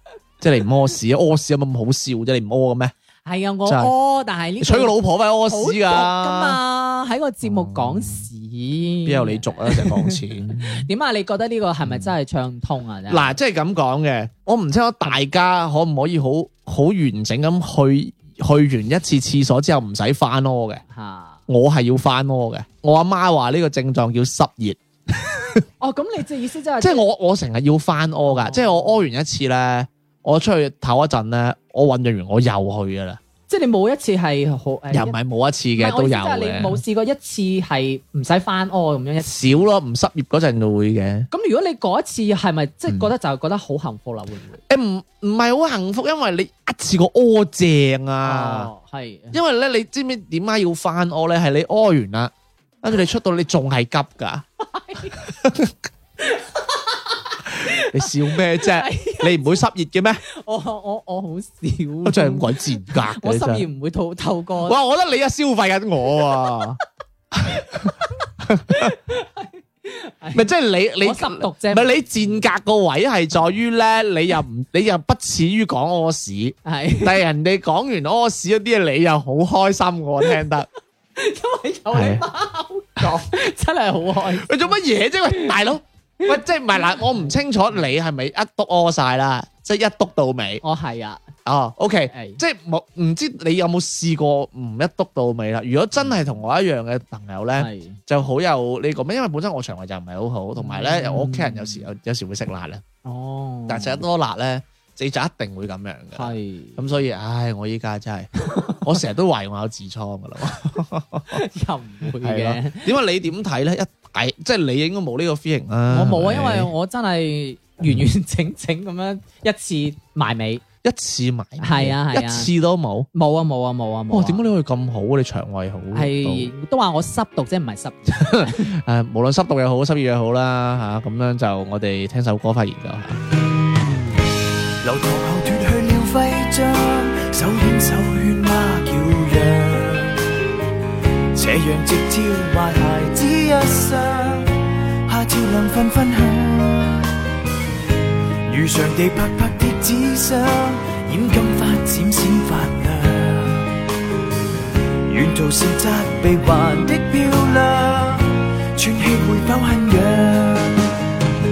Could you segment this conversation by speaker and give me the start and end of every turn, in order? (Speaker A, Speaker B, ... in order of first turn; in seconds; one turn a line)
Speaker A: 0.4-2.9
Speaker B: 3.3-13.4
Speaker A: 3.7-3.9
Speaker A: 4.6-6.6
Speaker A: 7.4-8.3
Speaker A: 9.1-10.9
Speaker A: 11.8-12.1
Speaker A: 13.1-20.8
Speaker B: 20.9-21.4
Speaker A: 21.5-25.6
Speaker B: 25.8-27.1
Speaker A: 26.8-33.2
Speaker B: 28.3-29.0
Speaker B: 33.5-35.2
Speaker A: 34.9-36.8
Speaker B: 35.8-39.6
Speaker A: 39.2-41.3
Speaker B: 41.3-44.6
Speaker A: 44.7-48.7
Speaker B: 48.2-49.4
Speaker A: 49.3-54.4
Speaker B: 54.6-55.2
Speaker A: 55.1-55.8
Speaker B: 56.2-59.6
Speaker A: 57.5-60.2
Speaker B: 60.2-64.8
Speaker A: 62.0-63.7
Speaker A: 64.6-66.8
Speaker A: 67.3-68.9
Speaker B: 67.5-68.1
Speaker B: 68.7-72.4
Speaker A: 70.3-80.7
Speaker B: 76.7-77.2
Speaker B: 81.2-85.5
Speaker A: 81.9-82.2
Speaker A: 84.2-90.6
Speaker B: 86.3-87.5
Speaker B: 90.6-91.2
Speaker A: 91.5-102.8
Speaker B: 92.1-92.4
Speaker B: 97.6-98.0
Speaker B: 100.6-101.9
Speaker B: 103.0-104.0
Speaker A: 103.7-111.4
Speaker B: 106.1-106.8
Speaker B: 108.4-108.9
Speaker B: 111.3-112.9
Speaker A: 112.2-116.7
Speaker B: 115.9-120.6
Speaker A: 120.8-123.1
Speaker B: 121.6-122.5
Speaker B: 123.1-124.5
Speaker A: 124.1-126.5
Speaker B: 125.9-128.7
Speaker A: 128.1-133.2
Speaker C: 134.8-140.3
Speaker C: 141.3-147.1
Speaker C: 148.5-153.8
Speaker C: 155.1-160.8